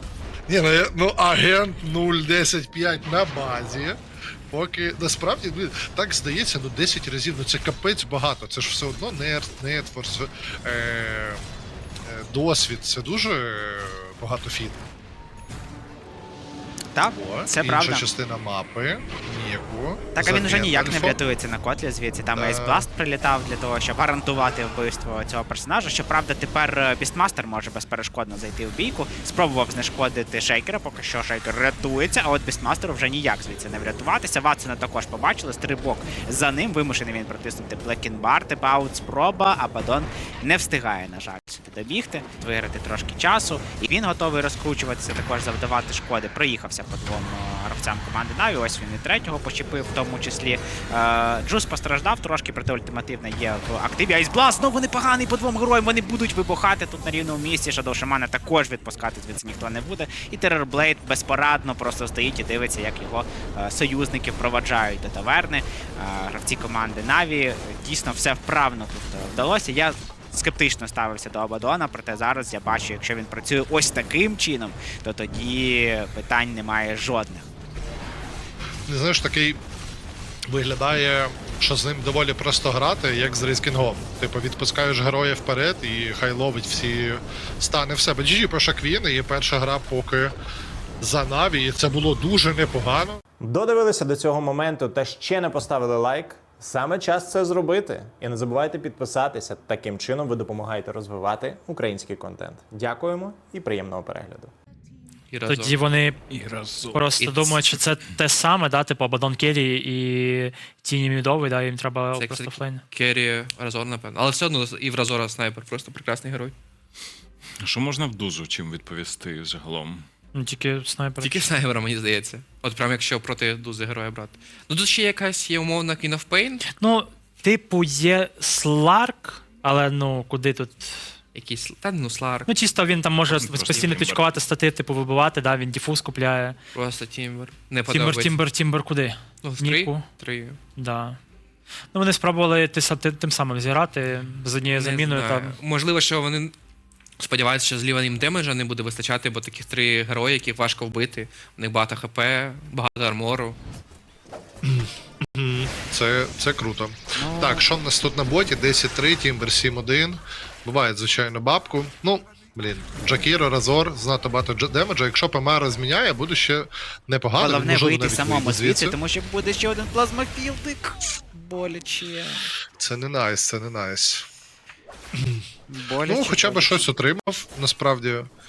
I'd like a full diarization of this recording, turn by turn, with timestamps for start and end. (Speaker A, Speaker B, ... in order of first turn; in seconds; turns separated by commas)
Speaker A: 0.5-11.4, Speaker A: 12.0-14.8, Speaker B: 16.9-18.1, Speaker A: 17.1-21.2, Speaker B: 20.1-77.5, Speaker A: 22.3-22.9, Speaker A: 78.9-79.6, Speaker A: 80.5-90.3, Speaker A: 91.0-93.2, Speaker C: 93.4-104.5, Speaker D: 105.3-105.8, Speaker E: 105.5-106.2, Speaker F: 106.3-107.0, Speaker E: 106.9-112.8, Speaker D: 107.2-107.7, Speaker D: 112.1-116.5, Speaker F: 117.6-120.1, Speaker E: 120.3-121.5, Speaker D: 121.2-126.6, Speaker E: 126.7-131.1, Speaker D: 131.3-132.5, Speaker E: 132.5-136.6, Speaker F: 133.3-134.3, Speaker D: 133.7-134.0, Speaker D: 136.7-138.4, Speaker E: 137.9-140.1, Speaker D: 139.4-140.6, Speaker E: 140.7-141.2, Speaker E: 141.9-145.6, Speaker D: 144.7-146.5, Speaker D: 147.2-153.6, Speaker A: 154.6-169.0, Speaker B: 157.2-157.7, Speaker B: 167.4-172.5, Speaker A: 172.8-174.2, Speaker A: 175.1-175.4, Speaker B: 175.7-176.9, Speaker A: 176.0-178.3